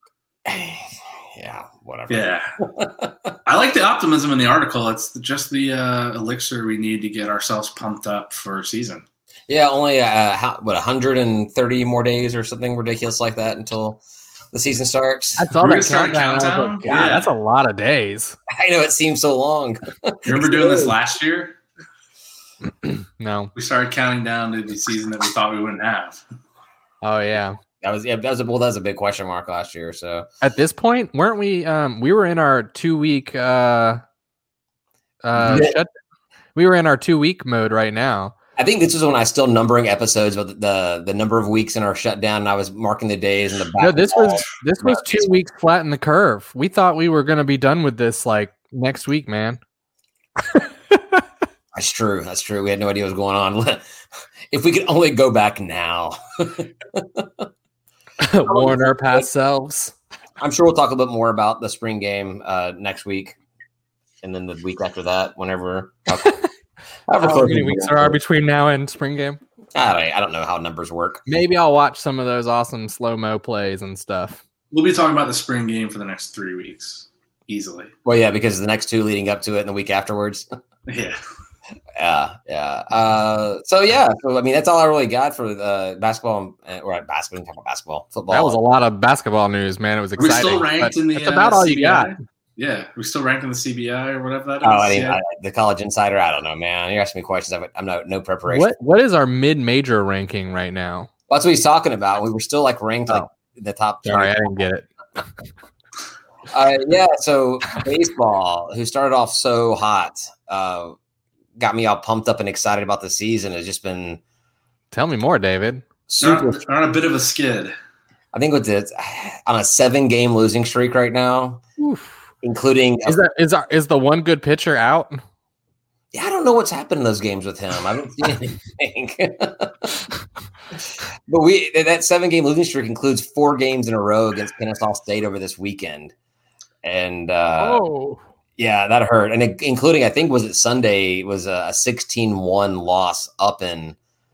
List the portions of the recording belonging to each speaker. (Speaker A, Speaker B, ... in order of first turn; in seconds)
Speaker A: 0.5-3.4, 9.5-14.0, 14.5-15.5, 16.9-17.1, 18.5-20.9, 27.8-30.3, 35.4-35.8, 38.6-45.3, 51.8-53.8, 54.5-57.5, 58.5-59.3, 60.4-63.4, 64.2-66.4, 67.1-68.2, 69.8-71.2, 78.0-80.5, 82.0-88.6, 94.6-98.7, 101.3-104.5, 106.5-111.0, 111.6-114.2, 116.1-116.6, 118.3-121.6, 122.4-123.2, 126.1-129.9, 131.3-136.1, 136.8-137.8, 138.6-144.0
Speaker B: 2.1-2.5, 3.5-9.1, 15.6-17.3, 20.2-21.6, 23.6-26.2, 74.7-77.9, 80.9-81.2, 90.2-95.2, 116.2-117.7
Speaker C: 15.4-18.4, 23.2-23.5, 27.0-27.6, 30.4-34.0, 35.2-35.9, 36.5-38.3, 43.8-49.6, 50.5-51.0, 58.2-60.0, 67.2-69.4, 71.3-74.4, 88.3-92.1, 98.5-101.1, 104.0-104.9, 114.9-115.8, 121.8-122.2, 123.0-125.2, 137.6-138.2